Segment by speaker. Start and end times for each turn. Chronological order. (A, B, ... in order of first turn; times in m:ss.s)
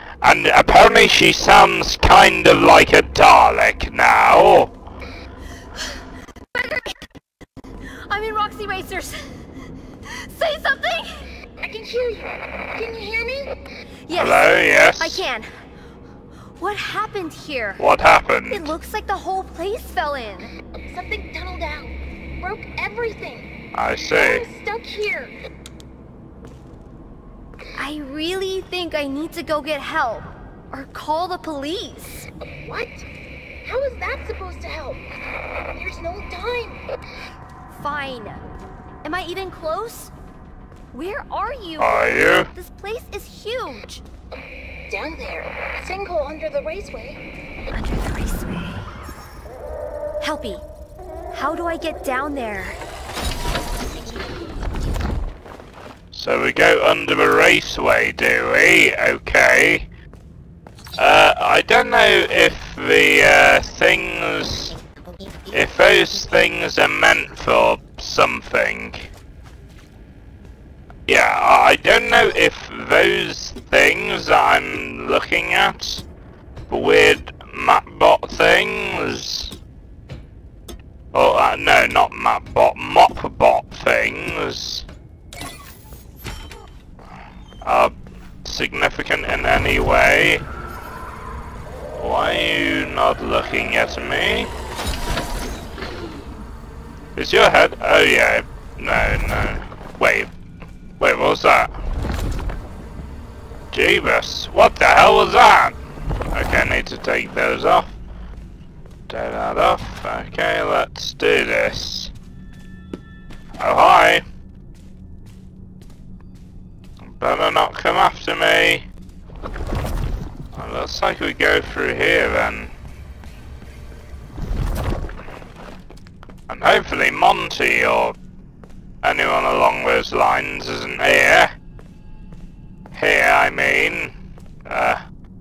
0:00.2-0:04.7 A
0:06.5-0:07.0 B
0:08.0-0:09.3 B
0:10.1-0:11.3 B
0:11.6-0:13.5 C
0:14.1-0:15.5 B
0:14.1-0:15.2 A
0:16.6-0:17.8 B
0:17.8-0:18.7 A
0:18.5-0:20.5 B
0:20.9-0:23.5 C
0:23.7-0:24.4 A
0:24.1-0:25.4 C
0:27.8-0:32.3 B
0:32.6-0:33.0 C
0:33.6-0:35.0 C
0:35.7-0:36.8 C
0:37.7-0:38.4 B
0:39.0-0:40.1 B
0:40.9-0:44.0 B
0:41.8-0:42.5 A
0:44.9-0:47.2 C
0:47.7-0:48.8 B
0:50.2-0:50.6 B
0:51.3-0:52.8 B
0:56.1-0:59.9 A
1:01.0-1:04.7 A
1:05.5-1:09.1 A
1:11.1-1:16.0 A
1:16.7-1:19.5 A
1:21.1-1:24.8 A
1:27.6-1:30.4 A
1:32.0-1:34.5 A
1:37.2-1:40.3 A
1:41.0-1:41.7 A
1:43.7-1:45.8 A
1:46.3-1:47.9 A
1:49.1-1:52.1 A
1:53.6-1:54.2 A
1:57.1-1:58.8 A
2:00.5-2:02.7 A
2:06.5-2:08.2 A
2:09.0-2:11.5 A
2:12.9-2:14.2 A
2:14.7-2:15.0 A